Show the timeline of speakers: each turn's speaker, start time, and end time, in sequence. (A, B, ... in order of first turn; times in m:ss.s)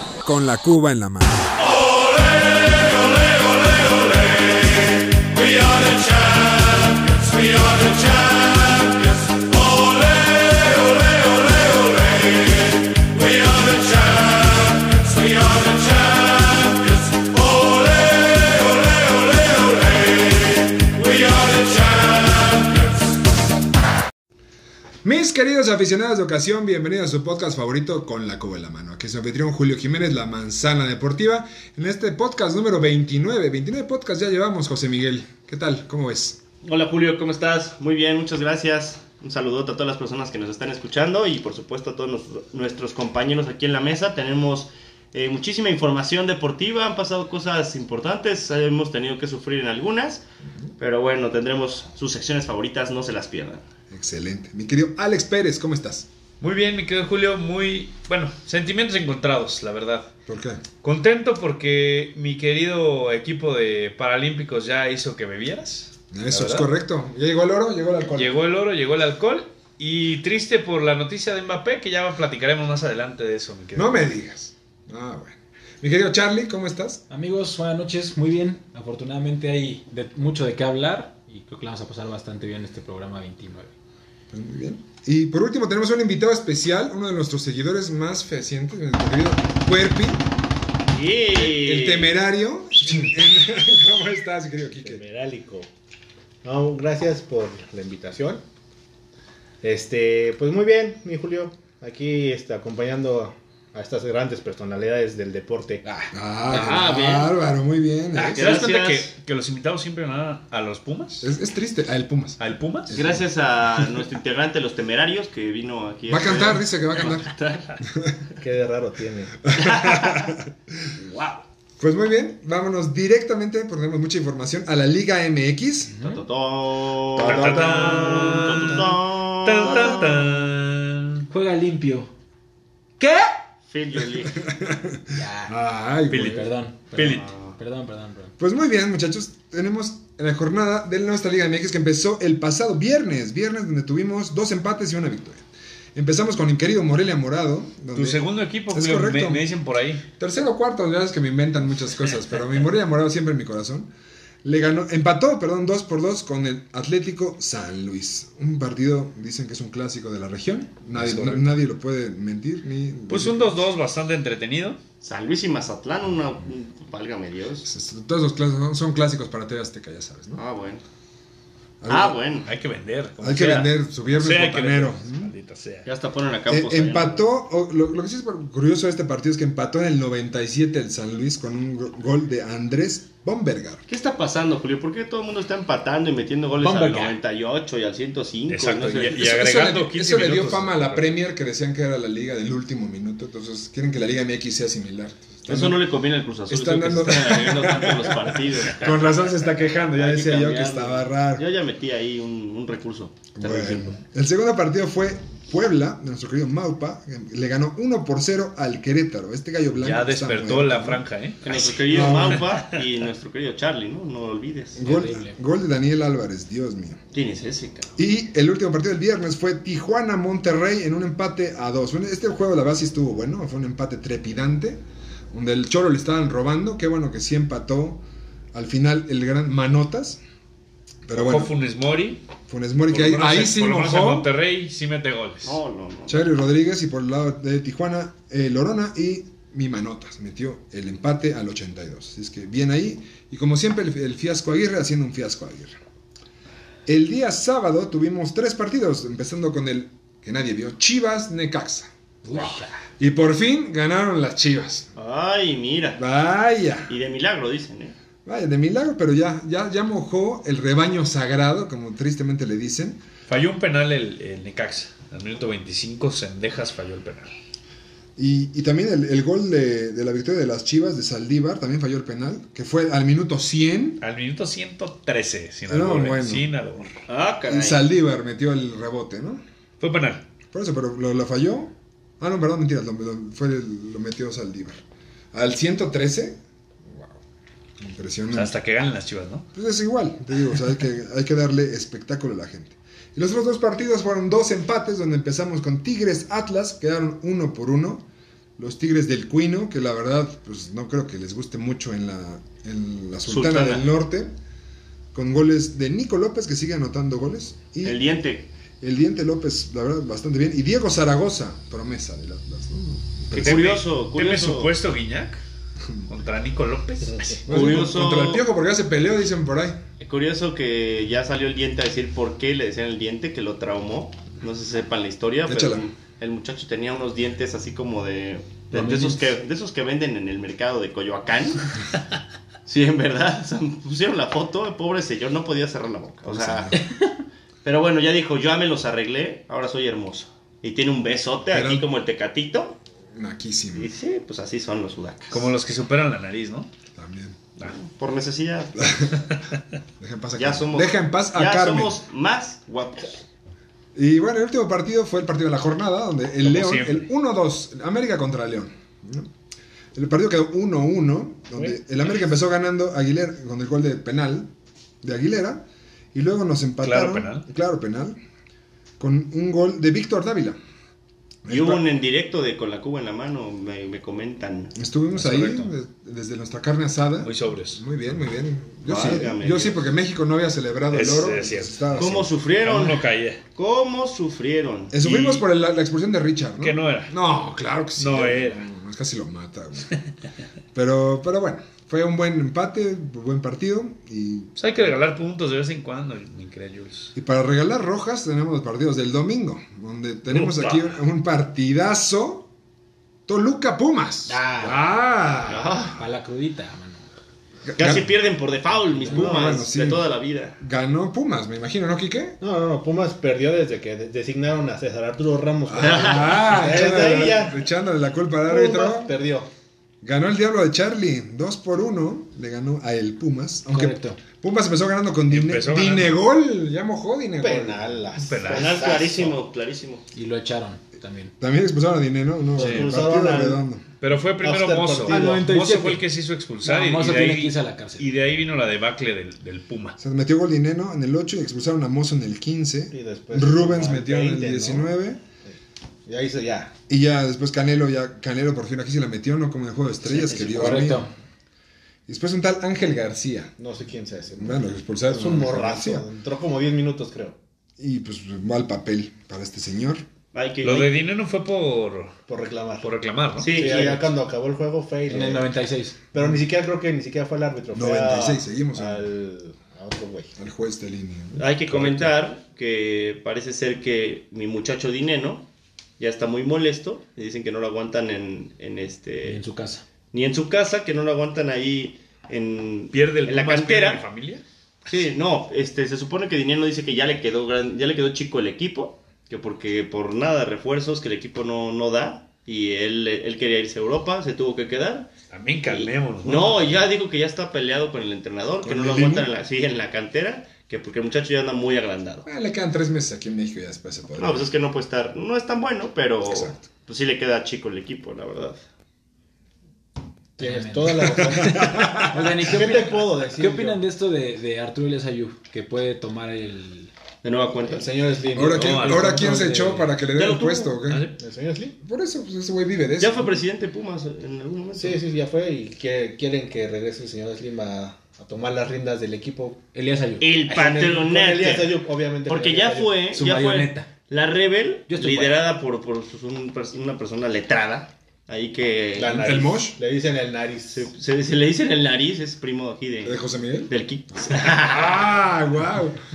0:00.2-0:01.5 A
0:25.0-0:36.4 A
0:36.6-0:50.2 B
0:50.8-0:53.6 B
0:53.9-0:56.1 A
0:56.4-1:00.1 C
1:00.3-1:00.6 A
1:00.8-1:06.7 C
1:06.1-1:08.3 A
1:08.1-1:14.1 C
1:13.8-1:17.0 A
1:17.1-1:23.7 D
1:24.3-1:30.2 A
1:30.9-1:32.1 B
1:31.3-1:35.0 A
1:34.8-1:35.7 E
1:36.4-1:38.4 E
1:39.6-1:46.0 E
1:46.1-1:48.6 A
1:46.5-1:47.4 B
1:48.2-1:51.3 C
1:48.3-1:49.1 B
1:51.2-1:53.2 A
1:52.4-1:52.9 C
1:52.9-1:57.7 B
1:56.1-1:57.3 A
1:58.4-1:59.5 E
1:59.5-2:00.4 A
1:59.6-2:00.3 B
2:01.1-2:01.4 B
2:01.8-2:05.9 A
2:06.0-2:06.2 D
2:06.0-2:10.2 B
2:07.2-2:08.3 A
2:07.2-2:11.2 C
2:09.6-2:10.2 A
2:11.3-2:12.1 D
2:13.7-2:14.4 B
2:14.4-2:16.5 A
2:15.1-2:15.5 D
2:16.1-2:17.3 C
2:16.1-2:18.3 D
2:17.0-2:17.6 B
2:18.4-2:29.5 A
2:27.9-2:30.0 C
2:30.2-2:33.9 A
2:34.4-2:43.5 A
2:43.1-2:44.8 C
2:45.0-2:47.7 B
2:47.6-2:50.4 A
2:50.4-2:50.8 B
2:51.8-2:52.2 A
2:51.9-2:52.5 B
2:52.5-2:55.9 C
2:53.2-2:55.3 A
2:55.8-2:57.2 B
2:56.5-3:03.8 A
3:03.9-3:09.2 B
3:06.6-3:07.2 D
3:08.5-3:11.1 C
3:09.1-3:15.8 A
3:15.5-3:19.1 B
3:16.5-3:21.5 A
3:19.9-3:24.0 B
3:23.4-3:31.0 A
3:29.8-3:32.8 C
3:31.4-3:34.8 B
3:31.9-3:32.4 A
3:34.8-3:37.0 A
3:34.8-3:35.4 D
3:37.1-3:37.9 B
3:38.0-3:44.8 A
3:45.3-3:50.2 A
3:51.1-3:51.5 A
3:51.1-3:52.2 C
3:52.5-3:54.3 A
3:52.9-3:55.6 C
3:55.4-3:56.2 B
3:56.1-4:05.8 A
4:06.8-4:11.9 A
4:12.2-4:12.8 D
4:13.0-4:14.9 A
4:15.0-4:16.0 B
4:16.0-4:16.9 A
4:16.9-4:17.9 B
4:18.2-4:23.0 A
4:23.3-4:27.3 C
4:28.2-4:34.0 A
4:34.0-4:36.9 C
4:35.7-4:36.5 A
4:37.1-4:37.8 B
4:37.5-4:39.4 A
4:39.8-4:40.2 C
4:40.5-4:47.2 A
4:47.8-4:48.5 A
4:48.3-4:49.4 C
4:49.5-4:58.1 A
4:58.6-5:04.3 A
5:03.2-5:03.9 B
5:05.1-5:08.0 A
5:07.8-5:08.5 B
5:08.8-5:13.7 A
5:13.3-5:14.7 B
5:13.3-5:15.4 C
5:16.1-5:17.5 C
5:17.5-5:19.8 A
5:17.5-5:18.4 B
5:20.0-5:31.9 B
5:25.4-5:25.9 A
5:28.7-5:29.3 D
5:32.6-5:36.8 B
5:36.3-5:36.9 A
5:37.6-5:42.8 B
5:41.5-5:41.9 A
5:43.1-5:43.9 A
5:43.8-5:45.5 B
5:45.3-5:46.7 C
5:46.9-5:47.4 A
5:47.6-5:49.1 B
5:48.8-5:49.1 A
5:50.0-5:52.0 A
5:50.4-5:53.2 B
5:53.9-5:59.3 A
5:56.4-5:57.1 C
5:59.9-6:04.5 A
6:05.0-6:08.2 A
6:06.8-6:07.4 C
6:09.0-6:10.6 A
6:11.4-6:11.8 A
6:11.5-6:14.8 B
6:14.8-6:22.3 A
6:15.1-6:15.7 D
6:17.2-6:17.8 C
6:18.9-6:19.8 B
6:20.9-6:22.1 C
6:22.0-6:25.4 B
6:22.6-6:23.4 C
6:24.9-6:29.9 A
6:26.6-6:27.1 C
6:28.0-6:28.6 C
6:30.8-6:34.6 A
6:34.6-6:37.1 C
6:37.2-6:42.5 A
6:40.4-6:40.8 C
6:43.3-6:46.0 A
6:44.3-6:44.8 D
6:45.5-6:46.0 B
6:45.9-6:47.0 D
6:47.6-6:48.1 A
6:47.8-6:50.6 B
6:49.0-6:50.1 A
6:50.6-6:52.4 A
6:52.4-6:57.6 E
6:55.7-6:59.1 A
6:55.8-6:56.6 B
6:58.5-6:59.5 E
7:00.0-7:07.8 A
7:03.7-7:04.2 D
7:05.3-7:06.1 C
7:07.4-7:09.4 E
7:08.2-7:09.0 C
7:08.5-7:10.0 B
7:10.1-7:11.3 D
7:11.4-7:13.8 A
7:12.6-7:13.6 E
7:12.6-7:13.0 C
7:14.0-7:20.0 C
7:14.4-7:15.5 E
7:15.1-7:16.0 D
7:16.6-7:18.1 D
7:20.0-7:25.2 A
7:22.9-7:24.9 E
7:26.1-7:26.7 E
7:26.9-7:31.1 A
7:30.3-7:31.1 D
7:32.1-7:33.5 A
7:33.6-7:37.4 E
7:34.4-7:36.1 A
7:37.8-7:40.0 A
7:40.3-7:40.9 B
7:40.6-7:42.2 C
7:42.3-7:42.9 E
7:42.8-7:43.8 C
7:43.4-7:44.1 B
7:43.5-7:45.5 E
7:45.1-7:46.0 D
7:46.1-7:50.3 E
7:47.7-7:49.1 A
7:50.4-7:51.8 A
7:51.4-7:55.4 B
7:56.0-7:59.4 B
7:59.2-7:59.8 D
8:00.1-8:04.1 B
8:02.9-8:04.4 C
8:04.9-8:15.1 B
8:15.3-8:16.9 C
8:15.7-8:22.2 B
8:18.6-8:19.3 A
8:22.2-8:24.5 A
8:24.2-8:28.6 B
8:26.3-8:26.6 A
8:30.4-8:36.9 D
8:30.4-8:33.8 E
8:31.2-8:32.2 A
8:37.2-8:37.9 B
8:37.7-8:39.7 E
8:38.3-8:41.1 A
8:38.5-8:39.4 C
8:39.1-8:39.9 D
8:40.1-8:40.8 B
8:40.9-8:41.2 C
8:41.2-8:41.8 E
8:41.8-8:43.4 A
8:43.0-8:45.0 B
8:44.8-8:49.6 E
8:49.7-8:50.4 D
8:50.2-8:59.3 B
8:50.5-8:53.0 E
8:53.1-8:53.9 D
8:54.9-8:55.4 D
8:59.0-9:00.9 E
8:59.1-8:59.8 A
9:00.7-9:05.0 B
9:03.0-9:03.7 A
9:04.4-9:06.0 A